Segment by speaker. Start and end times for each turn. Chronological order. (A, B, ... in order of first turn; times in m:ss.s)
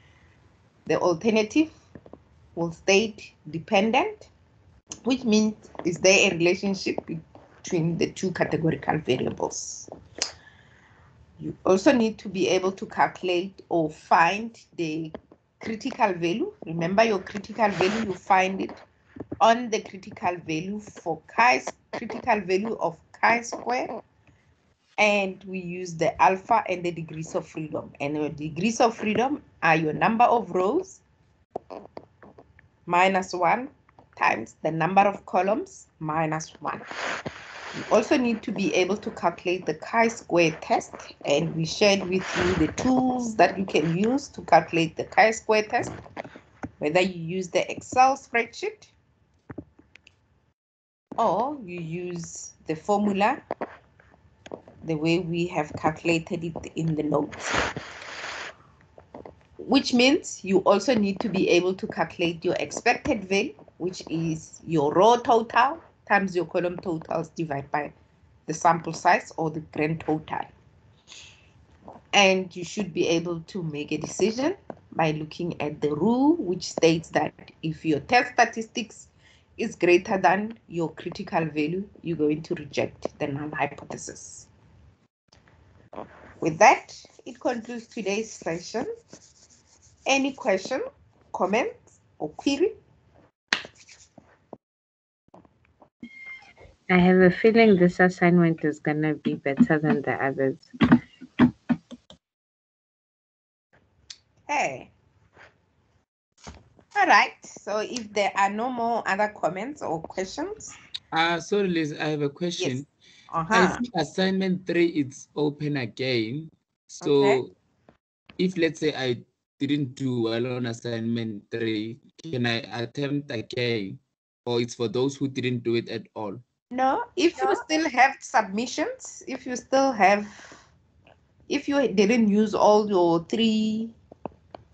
0:00.9-0:01.7 A
0:02.6-0:04.3 A
0:05.0-0:09.9 A
0:11.4-0:18.8 A
0:19.4-0:23.9 A
0:25.0-0:31.0 A
0:32.9-0:36.8 A
0:37.9-0:45.9 A
0:46.8-0:48.9 A
0:51.2-0:53.4 A
0:54.8-0:57.5 A
0:59.6-1:07.9 A
1:08.5-1:10.5 A
1:12.1-1:24.5 A
1:26.4-1:28.9 A
1:30.1-1:32.7 A
1:36.9-1:40.7 B
1:44.5-1:44.9 A
1:47.0-1:50.8 A
1:51.1-1:52.9 C
1:52.6-1:53.8 A
1:53.5-1:57.5 C
1:57.0-1:57.4 A
1:58.4-2:06.4 C
2:06.7-2:10.7 A
2:11.5-2:14.0 A